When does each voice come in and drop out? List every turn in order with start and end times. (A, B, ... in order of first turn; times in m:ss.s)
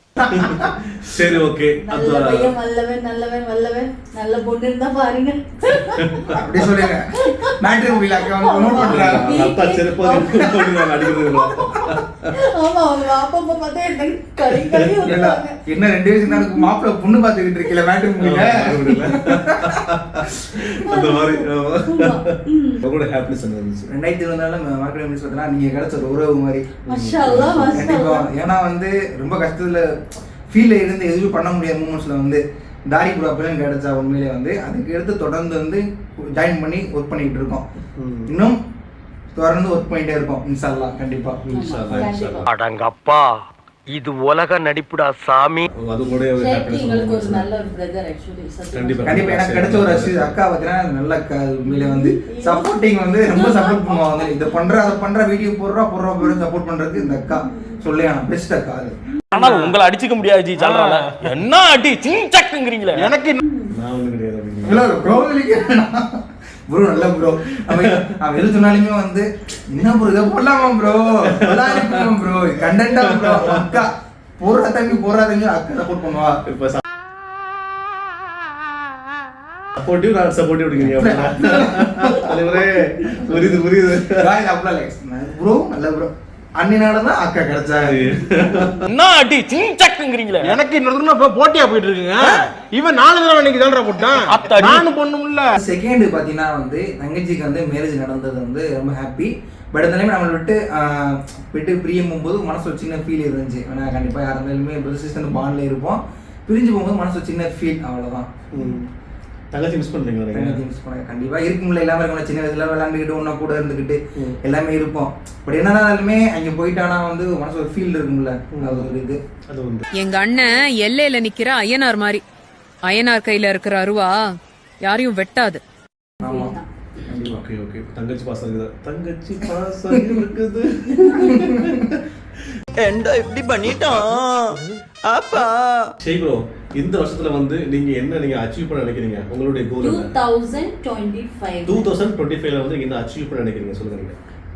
0:00.3-0:02.5 A
0:00.3-0:00.7 B
0:01.8-0:06.4 C
0:06.0-0:06.4 A
0:06.4-0:09.5 B
0:07.2-0:07.6 C
0:08.2-0:11.8 C
0:08.8-0:12.3 A
0:12.4-0:15.5 C
0:14.6-0:15.0 A
0:15.1-0:20.5 B
0:16.3-0:16.7 C
0:18.2-0:23.9 A
0:20.9-0:22.8 C
0:23.9-0:26.7 B
0:26.9-0:27.9 A
0:26.9-0:28.3 C
0:27.7-0:29.9 B
0:30.5-0:37.6 B
0:38.0-0:38.3 A
0:38.3-0:38.6 B
0:39.4-0:41.4 B
0:41.5-0:42.5 A
0:41.5-0:42.5 C
0:42.5-0:43.3 D
0:43.9-0:45.7 D
0:45.7-0:47.5 A
0:46.4-0:49.3 C
0:48.7-0:50.4 A
0:49.0-0:59.0 B
0:51.7-0:54.8 C
0:57.0-0:57.8 C
0:59.3-1:03.0 E
1:00.6-1:01.0 F
1:03.0-1:03.4 F
1:03.4-1:03.7 C
1:03.7-1:05.0 A
1:04.6-1:06.1 B
1:06.7-1:16.4 B
1:07.1-1:08.1 A
1:11.3-1:12.1 A
1:13.1-1:13.8 A
1:16.5-1:16.8 A
1:19.8-1:24.3 A
1:20.8-1:22.5 B
1:23.3-1:28.8 B
1:27.8-1:28.9 A
1:28.9-1:30.5 E
1:30.4-1:35.5 F
1:34.2-1:34.8 E
1:35.6-1:48.3 B
1:48.5-1:48.9 A
1:49.5-1:50.6 A
1:50.3-1:59.2 B
1:58.5-1:58.9 A
1:59.5-1:59.8 A
1:59.9-2:02.2 G
2:02.8-2:05.6 G
2:06.2-2:06.6 B
2:06.2-2:06.7 C
2:07.1-2:07.4 B
2:07.3-2:12.0 A
2:11.0-2:11.3 C
2:11.4-2:11.8 B
2:12.8-2:14.5 H
2:15.1-2:15.8 H
2:16.0-2:20.1 A
2:19.8-2:21.9 C
2:21.7-2:24.2 A